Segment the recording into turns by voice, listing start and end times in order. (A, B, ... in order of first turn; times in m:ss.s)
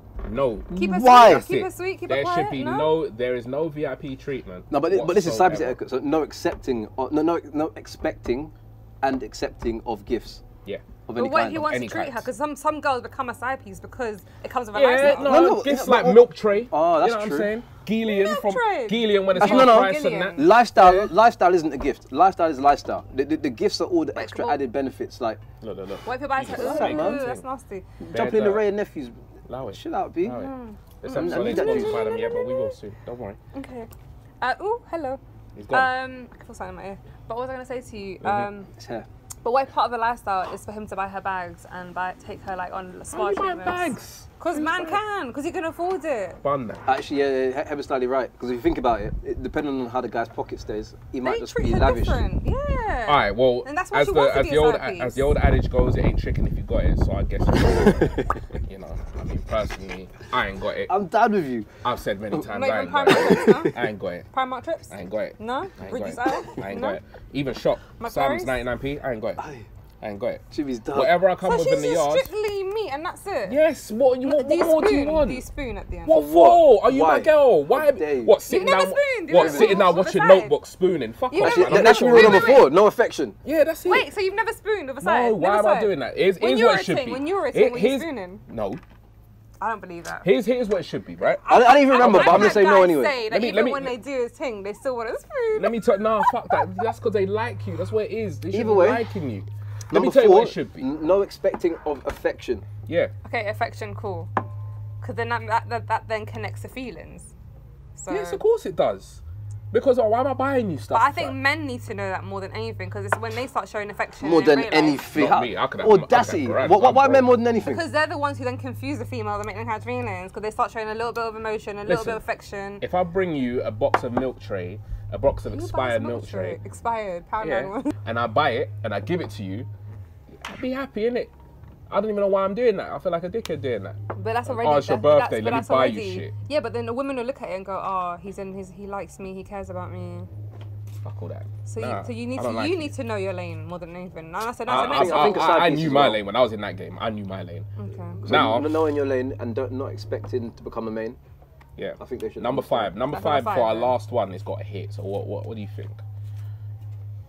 0:00.2-0:05.8 A
0:00.7-0:01.5 B
0:00.7-0:02.9 C
0:04.7-0:10.4 B
0:11.1-0:11.6 B
0:11.1-0:15.5 C
0:11.4-0:12.3 A
0:14.7-0:21.1 A
0:15.0-0:17.5 B
0:18.0-0:20.5 C
0:19.4-0:25.4 B
0:24.1-0:24.6 C
0:25.6-0:27.4 A
0:26.0-0:27.8 C
0:26.5-0:27.2 B
0:28.0-0:29.2 B
0:28.1-0:28.7 A
0:29.5-0:33.4 A
0:29.7-0:30.4 B
0:30.3-0:32.7 C
0:31.1-0:32.0 B
0:33.5-0:33.9 C
0:34.4-0:38.7 C
0:35.6-0:35.9 A
0:38.2-0:38.5 A
0:38.7-0:39.1 B
0:39.4-0:46.4 C
0:43.1-0:44.9 A
0:46.4-0:46.9 A
0:46.9-0:52.2 B
0:51.2-0:55.3 C
0:53.1-1:00.9 A
1:00.9-1:01.7 B
1:01.8-1:04.3 A
1:02.5-1:03.7 C
1:03.1-1:03.7 B
1:04.3-1:07.0 C
1:04.9-1:09.4 A
1:08.0-1:08.6 C
1:09.4-1:09.6 B
1:10.0-1:12.3 A
1:10.5-1:11.1 B
1:11.4-1:13.6 C
1:13.4-1:15.4 A
1:14.2-1:16.2 C
1:16.1-1:22.7 A
1:16.1-1:18.4 B
1:18.4-1:20.5 C
1:19.4-1:19.9 B
1:21.3-1:22.7 C
1:21.4-1:23.4 B
1:23.4-1:24.1 A
1:23.9-1:28.4 C
1:25.0-1:28.8 A
1:29.6-1:30.3 C
1:30.2-1:32.7 A
1:31.2-1:36.6 C
1:31.5-1:33.2 B
1:33.2-1:33.9 A
1:35.5-1:40.9 A
1:38.5-1:39.0 B
1:39.9-1:42.6 B
1:42.9-1:43.1 A
1:43.2-1:44.3 C
1:45.0-1:47.3 C
1:48.0-1:48.4 C
1:48.1-1:49.2 A
1:49.7-1:51.4 A
1:50.9-1:55.1 C
1:54.2-1:57.8 B
1:55.1-1:57.4 A
1:57.6-2:02.8 C
2:01.9-2:02.2 A
2:02.8-2:06.6 A
2:05.5-2:07.9 C
2:07.4-2:09.7 A
2:10.4-2:11.3 A
2:11.9-2:16.3 A
2:14.1-2:20.3 C
2:21.0-2:22.9 A
2:21.6-2:25.5 C
2:24.6-2:27.7 A
2:24.7-2:26.2 B
2:27.8-2:28.2 C
2:28.2-2:28.8 A
2:28.2-2:31.2 B
2:31.8-2:36.0 A
2:32.0-2:32.9 B
2:33.1-2:33.9 C